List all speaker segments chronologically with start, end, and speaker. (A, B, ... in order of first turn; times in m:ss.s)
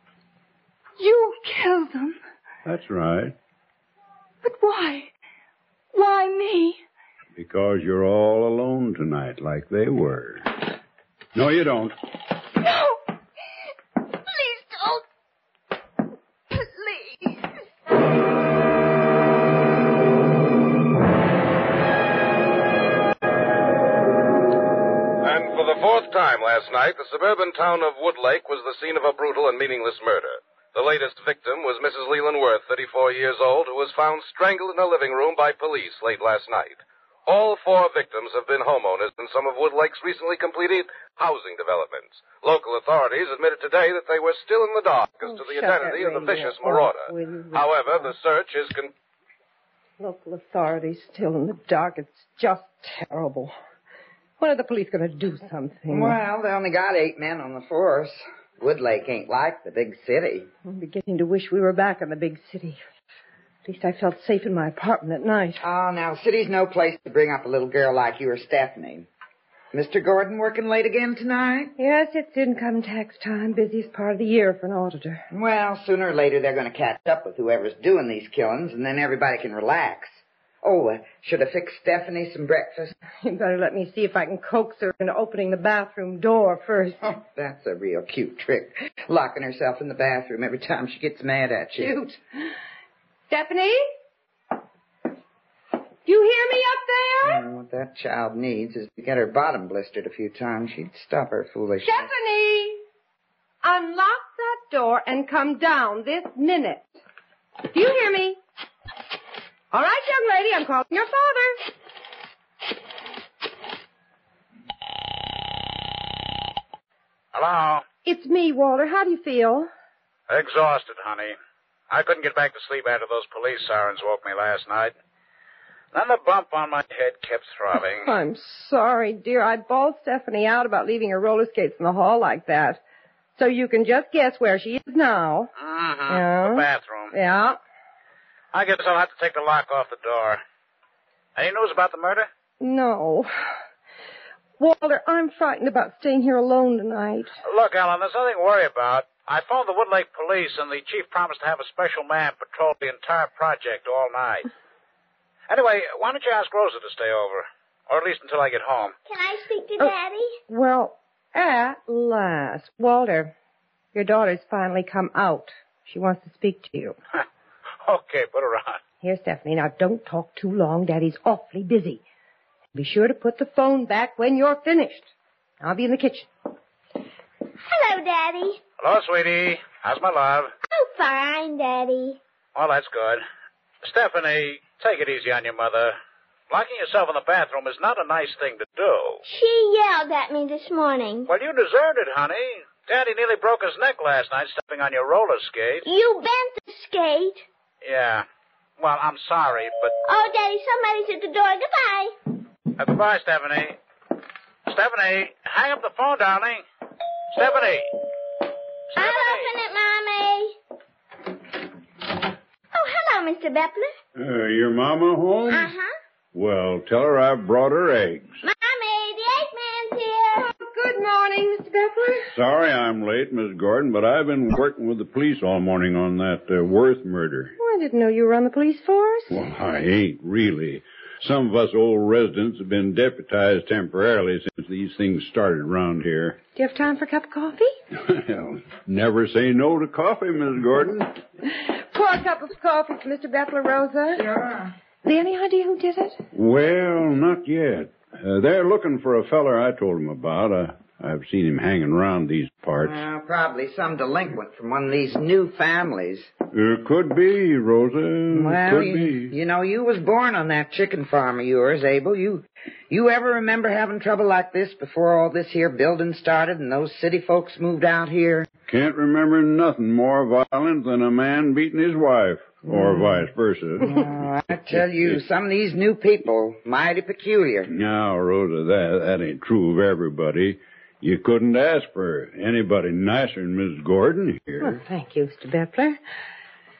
0:01.0-0:02.2 A
0:02.6-0:03.3 B
0:04.4-0:05.1 A
0:05.9-0:06.8 A
0:07.4-0:10.5 B
0:11.3-0:11.9 B
0:12.6-0:13.0 A
0:14.1-0:15.0 A
0:16.5-0:17.5 A
0:25.2-0:48.9 C
0:45.2-0:48.1 D
0:50.0-0:53.5 D
0:54.4-0:56.2 D
0:55.9-1:00.5 E
1:00.6-1:02.8 D
1:03.6-1:05.6 D
1:05.6-1:09.1 E
1:09.7-1:11.7 E
1:11.8-1:15.2 D
1:15.3-1:22.9 E
1:23.2-1:27.0 D
1:27.0-1:32.0 E
1:31.8-1:32.2 D
1:33.3-1:33.8 D
1:36.0-1:37.4 D
1:37.2-1:42.1 E
1:41.8-1:42.8 D
1:43.6-1:47.0 D
1:47.6-1:48.4 D
1:49.7-1:51.7 D
1:57.3-1:57.8 F
1:58.0-1:59.7 D
2:00.3-2:01.4 F
2:01.9-2:04.9 F
2:05.9-2:08.1 F
2:08.0-2:12.8 D
2:13.4-2:15.5 D
2:15.6-2:17.1 F
2:16.1-2:17.6 D
2:18.5-2:20.4 F
2:21.4-2:22.3 F
2:22.6-2:23.5 D
2:24.6-2:27.3 D
2:27.4-2:34.5 F
2:35.5-2:38.9 F
2:39.0-2:40.4 G
2:40.5-2:43.3 D
2:43.9-2:47.0 D
2:47.8-2:48.8 F
2:49.0-2:52.0 D
2:52.7-2:56.3 D
2:57.6-2:58.6 G
2:58.8-3:00.5 F
3:00.7-3:02.2 G
3:02.5-3:03.2 F
3:03.8-3:06.0 F
3:06.5-3:09.2 F
3:09.2-3:11.3 G
3:11.3-3:15.8 F
3:15.8-3:17.4 G
3:17.8-3:18.2 F
3:18.8-3:19.9 F
3:20.0-3:22.1 G
3:22.8-3:23.8 F
3:24.7-3:26.6 F
3:27.3-3:27.9 F
3:28.9-3:29.5 F
3:29.0-3:30.5 G
3:32.7-3:33.9 G
3:34.2-3:35.7 B
3:35.5-3:35.9 G
3:36.3-3:38.3 B
3:38.4-3:40.5 G
3:40.6-3:42.3 D
3:42.3-3:47.5 B
3:47.6-3:49.3 D
3:49.3-3:56.4 B
3:56.6-3:57.7 D
3:58.0-4:01.1 B
4:01.5-4:04.2 D
4:04.2-4:04.7 E
4:05.0-4:06.2 D
4:06.3-4:13.0 B
4:12.8-4:16.3 E
4:16.5-4:19.3 B
4:18.3-4:28.5 E
4:28.7-4:34.1 B
4:32.7-4:33.3 E
4:33.8-4:37.7 E
4:34.7-4:35.2 B
4:37.7-4:44.8 B
4:44.6-4:46.0 D